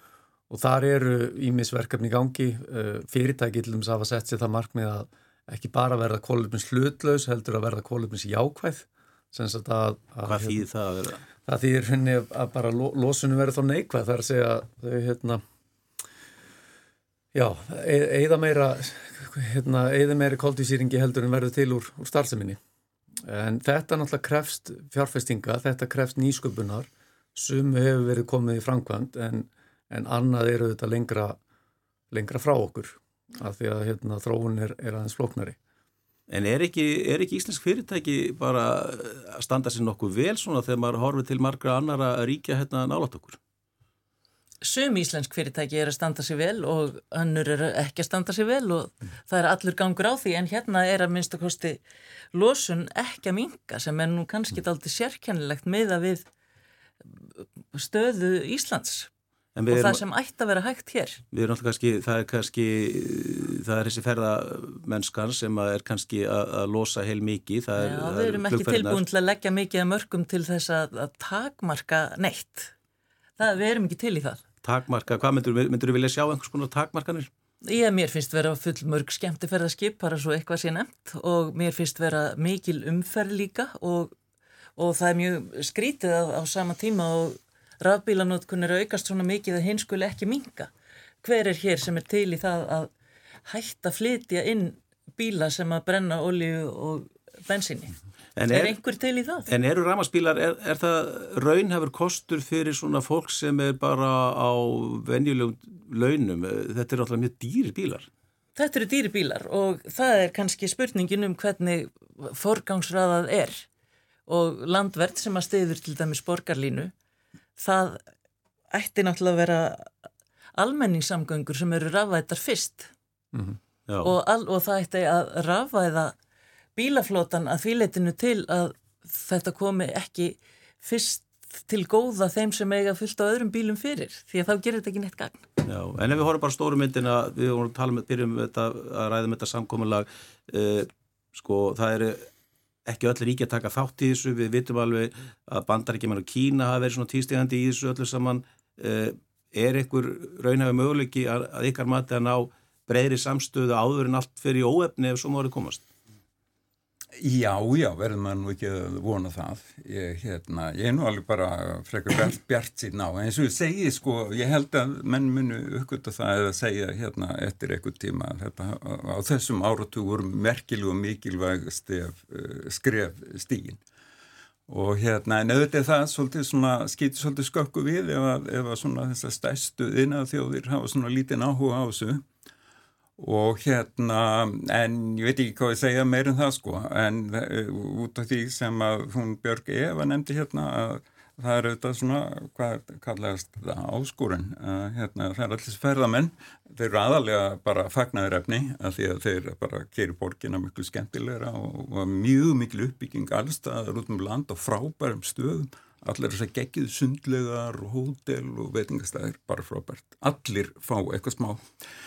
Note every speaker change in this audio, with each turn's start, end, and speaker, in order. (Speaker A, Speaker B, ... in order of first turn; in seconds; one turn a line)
Speaker A: 0.5-10.6
Speaker B: 10.3-11.2
Speaker A: 11.4-15.4
Speaker A: 17.3-22.6
Speaker A: 23.2-31.4
Speaker A: 32.1-35.6
Speaker B: 36.3-43.4
Speaker C: 44.6-51.8
Speaker C: 52.3-56.2
Speaker C: 57.7-59.1
Speaker B: 59.5-60.0
Speaker C: 59.7-61.2
Speaker B: 61.3-69.0
Speaker C: 67.8-72.7
Speaker C: 73.4-74.4
Speaker B: 74.6-77.3
Speaker C: 77.6-84.1
Speaker C: 84.8-90.7
Speaker C: 91.2-92.9
Speaker C: 93.5-97.9
Speaker B: 98.3-98.8
Speaker C: 98.5-99.5
Speaker B: 99.5-108.1
Speaker C: 108.5-113.7
Speaker C: 114.3-116.9
Speaker C: 117.6-118.0
Speaker C: 118.7-119.9
Speaker C: 120.6-122.9
Speaker A: 123.3-123.6
Speaker B: 123.9-124.1
Speaker C: 124.0-126.1
Speaker C: 126.8-135.4
Speaker B: 135.6-142.3
Speaker B: 142.8-155.8
Speaker D: 157.2-173.8
Speaker D: 174.7-182.2
Speaker D: 183.2-211.6